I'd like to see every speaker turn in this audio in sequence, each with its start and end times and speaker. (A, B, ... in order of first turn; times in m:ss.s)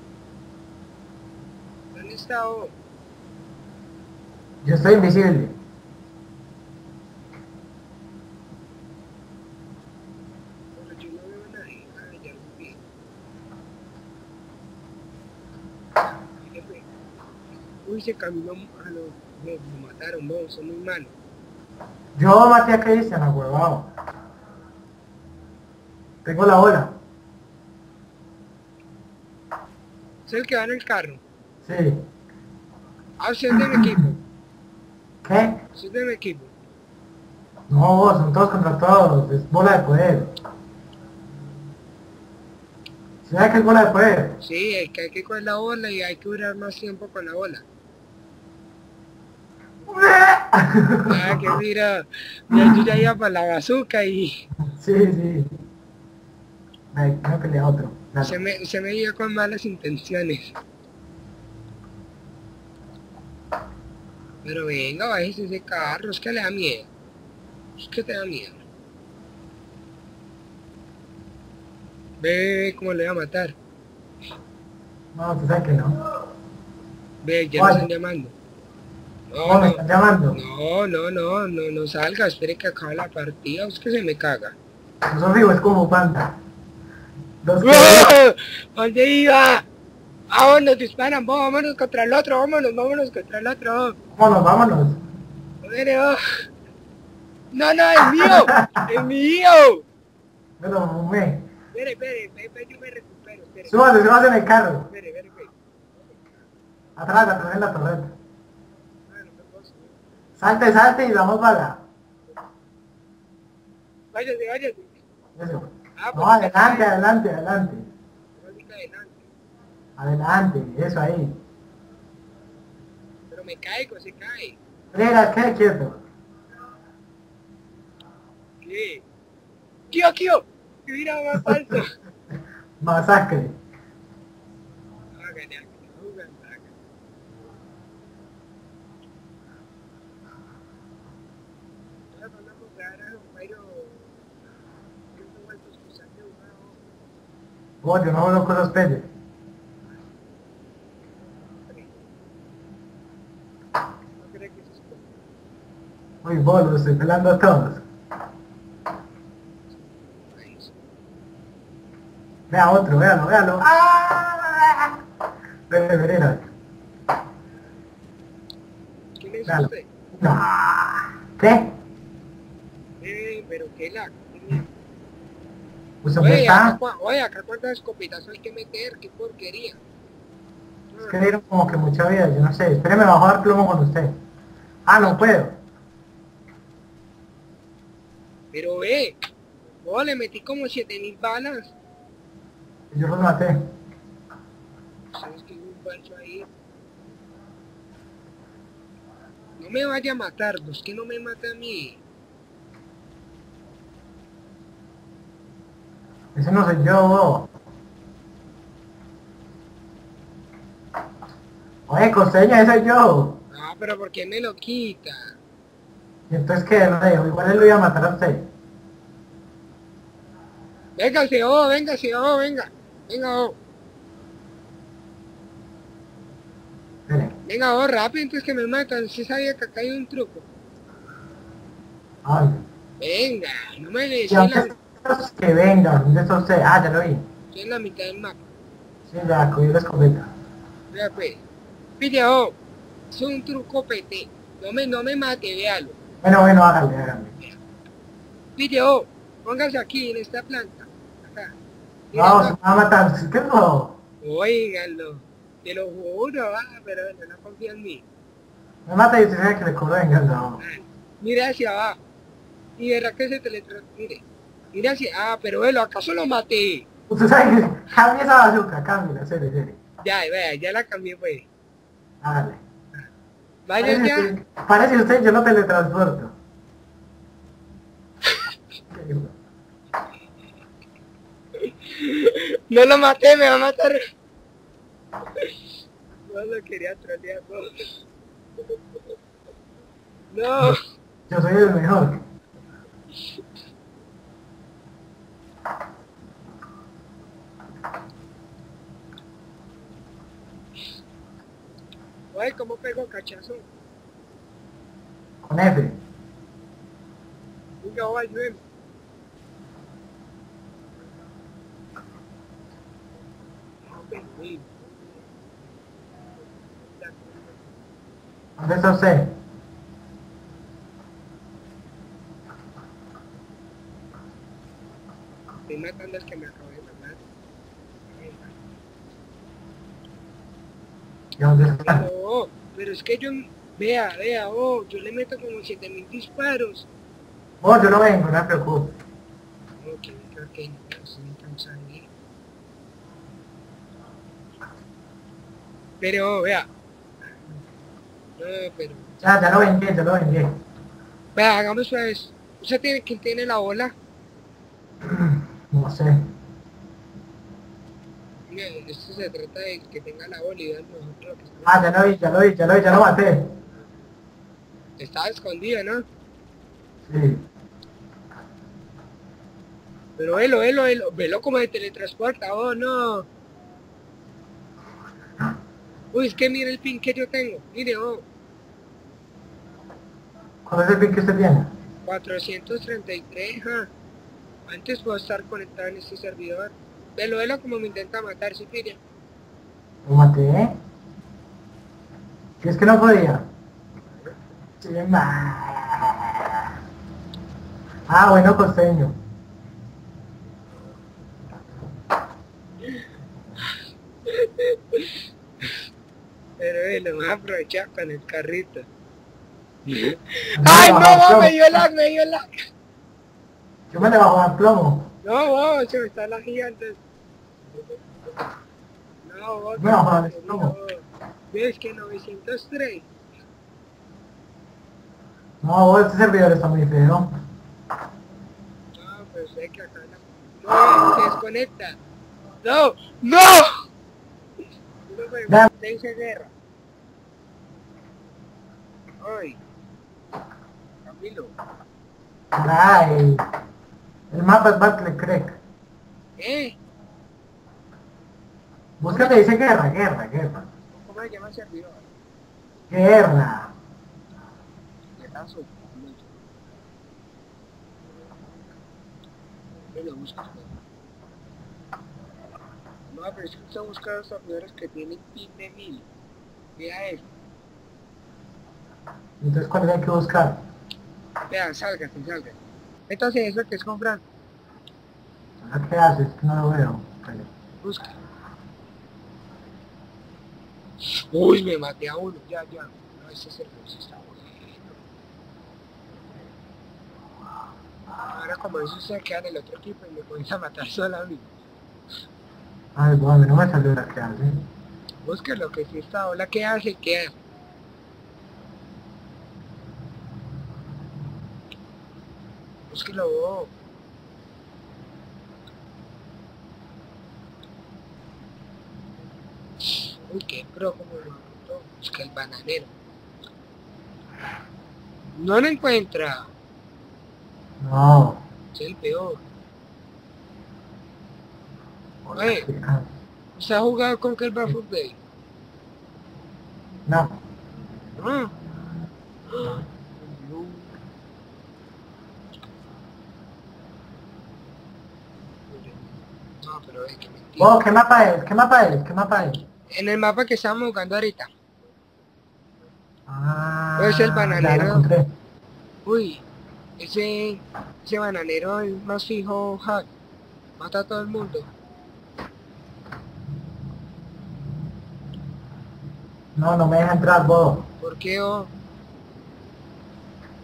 0:01.9-0:02.7 A
0:04.6-0:05.5 B
0:10.7-0:12.8 A
0:16.4-0:16.8 A
0:17.8-0:21.1 A
0:22.1-0:23.9 B
0:26.2-0:26.9 B
0:30.3-0:31.2 A
0:31.6-0:32.0 B
0:33.2-0:34.2 A
0:35.2-0:35.6 B
0:35.7-0:36.5 A
0:37.7-0:40.3 B
0:43.2-0:44.4 B
0:44.4-0:47.6 A
0:49.9-0:51.6 B
0:51.1-0:54.4 A
0:54.6-0:55.5 B
0:56.9-0:58.4 B
0:58.2-1:00.6 A
1:04.4-1:06.9 A
1:07.8-1:08.6 A
1:12.2-1:13.5 A
1:15.1-1:16.0 B
1:17.2-1:18.3 A
1:17.6-1:17.8 B
1:19.3-1:19.8 A
1:19.4-1:20.4 B
1:20.3-1:24.5 A
1:25.0-1:26.3 B
1:27.4-1:28.1 B
1:27.6-1:29.6 A
1:30.3-1:34.0 A
1:34.1-1:35.0 B
1:35.6-1:36.2 A
1:37.5-1:39.8 A
1:38.2-1:38.8 B
1:40.6-1:41.4 B
1:41.7-1:43.8 A
1:43.7-1:44.9 B
1:44.9-1:45.5 A
1:47.0-1:48.1 B
1:49.1-1:49.9 A
1:50.4-1:51.8 B
1:54.1-1:55.0 A
1:55.4-1:57.9 B
1:56.0-1:56.9 A
1:58.4-1:59.3 A
2:00.0-2:01.4 B
2:03.3-2:04.6 A
2:04.9-2:06.0 B
2:08.6-2:09.0 A
2:09.9-2:11.9 A
2:12.8-2:13.6 B
2:15.1-2:16.7 A
2:22.1-2:24.1 A
2:25.1-2:26.8 A
2:27.8-2:29.1 B
2:31.5-2:32.0 A
2:34.2-2:35.1 A
2:36.2-2:37.8 B
2:40.3-2:40.7 A
2:42.5-2:44.9 B
2:45.7-2:46.5 B
2:49.2-2:49.9 A
2:49.4-2:51.7 B
2:53.0-2:54.7 A
2:56.0-2:56.8 B
2:56.2-2:59.8 A
3:00.9-3:01.2 A
3:01.0-3:04.2 B
3:04.9-3:05.6 B
3:08.5-3:09.2 A
3:09.8-3:11.7 A
3:12.9-3:13.7 B
3:15.1-3:16.5 A
3:19.6-3:22.0 A
3:26.3-3:27.5 B
3:31.9-3:33.4 B
3:33.5-3:35.3 A
3:36.3-3:38.5 B
3:41.0-3:43.6 A
3:47.1-3:47.3 B
3:47.4-3:50.4 A
3:52.2-3:52.6 B
3:53.0-3:54.7 A
3:54.3-3:57.2 B
3:57.5-3:58.4 A
3:59.1-4:00.3 B
4:00.9-4:01.4 A
4:02.0-4:02.6 A
4:03.1-4:06.0 A
4:06.2-4:07.4 B
4:08.6-4:11.5 A
4:12.1-4:12.5 A
4:12.1-4:14.0 B
4:14.2-4:18.0 A
4:18.8-4:20.6 B
4:20.6-4:22.0 A
4:22.8-4:26.8 A
4:27.1-4:29.8 B
4:30.0-4:31.5 A
4:32.2-4:32.6 B
4:33.6-4:34.3 A
4:33.8-4:36.3 B
4:38.9-4:39.3 B
4:41.6-4:44.0 A
4:46.3-4:47.7 A
4:50.3-4:50.8 A
4:51.3-4:52.2 B
5:02.3-5:03.6 A
5:05.4-5:06.0 B
5:07.8-5:08.6 A
5:13.9-5:15.3 A
5:16.4-5:17.7 A
5:18.6-5:19.3 B
5:25.7-5:27.2 A
5:28.1-5:28.5 A
5:31.4-5:32.0 B
5:31.8-5:36.9 A
5:37.6-5:39.0 B
5:39.8-5:42.1 A
5:46.0-5:46.7 A
5:48.4-5:49.1 A
5:49.2-5:50.6 B
5:51.3-5:53.9 A
5:55.0-5:56.3 B
5:58.5-6:02.0 A
6:01.6-6:03.5 B
6:05.0-6:06.0 A
6:07.1-6:07.4 B
6:10.2-6:13.3 A
6:16.1-6:18.2 A
6:20.6-6:21.7 B
6:22.0-6:23.9 A
6:24.7-6:29.0 A
6:30.0-6:30.8 B
6:32.6-6:33.4 B
6:34.8-6:36.7 B
6:38.1-6:39.2 B
6:44.3-6:45.7 A
6:46.6-6:48.9 A
6:49.8-6:52.4 A
6:50.6-6:51.8 B
6:53.9-6:55.1 B
6:55.2-6:57.0 A
6:57.7-6:58.4 A
6:59.2-7:03.1 A
6:59.8-7:00.7 B
7:05.6-7:07.3 B
7:08.9-7:12.0 A
7:12.6-7:13.7 A
7:15.1-7:16.5 A
7:19.2-7:19.6 A
7:21.0-7:21.5 A
7:22.5-7:23.4 B
7:24.3-7:25.6 B
7:26.4-7:26.8 A
7:29.0-7:30.7 B
7:29.1-7:29.4 A
7:30.9-7:32.1 A
7:32.9-7:33.7 B
7:35.2-7:36.3 A
7:39.9-7:40.7 A
7:43.1-7:46.1 A
7:46.8-7:47.3 A
7:49.4-7:50.6 B
7:51.5-7:54.2 A
7:55.6-7:57.5 B
7:57.8-7:58.1 A
8:01.1-8:04.9 A
8:08.2-8:11.5 A
8:13.0-8:14.7 B
8:15.2-8:17.3 A
8:22.9-8:23.7 A
8:29.9-8:32.9 A
8:35.4-8:36.5 A
8:37.8-8:38.4 B
8:38.7-8:39.4 A
8:42.2-8:43.1 B
8:42.4-8:42.6 A
8:43.6-8:45.2 A
8:47.1-8:47.3 B
8:48.2-8:48.5 A
8:49.5-8:51.0 A
8:55.7-8:57.7 A
8:57.6-8:59.6 B
8:59.9-9:01.5 A
9:03.3-9:05.3 B
9:04.0-9:05.0 A
9:06.0-9:06.4 A
9:07.0-9:10.1 A
9:10.8-9:11.7 A
9:16.6-9:17.9 B
9:18.0-9:18.7 A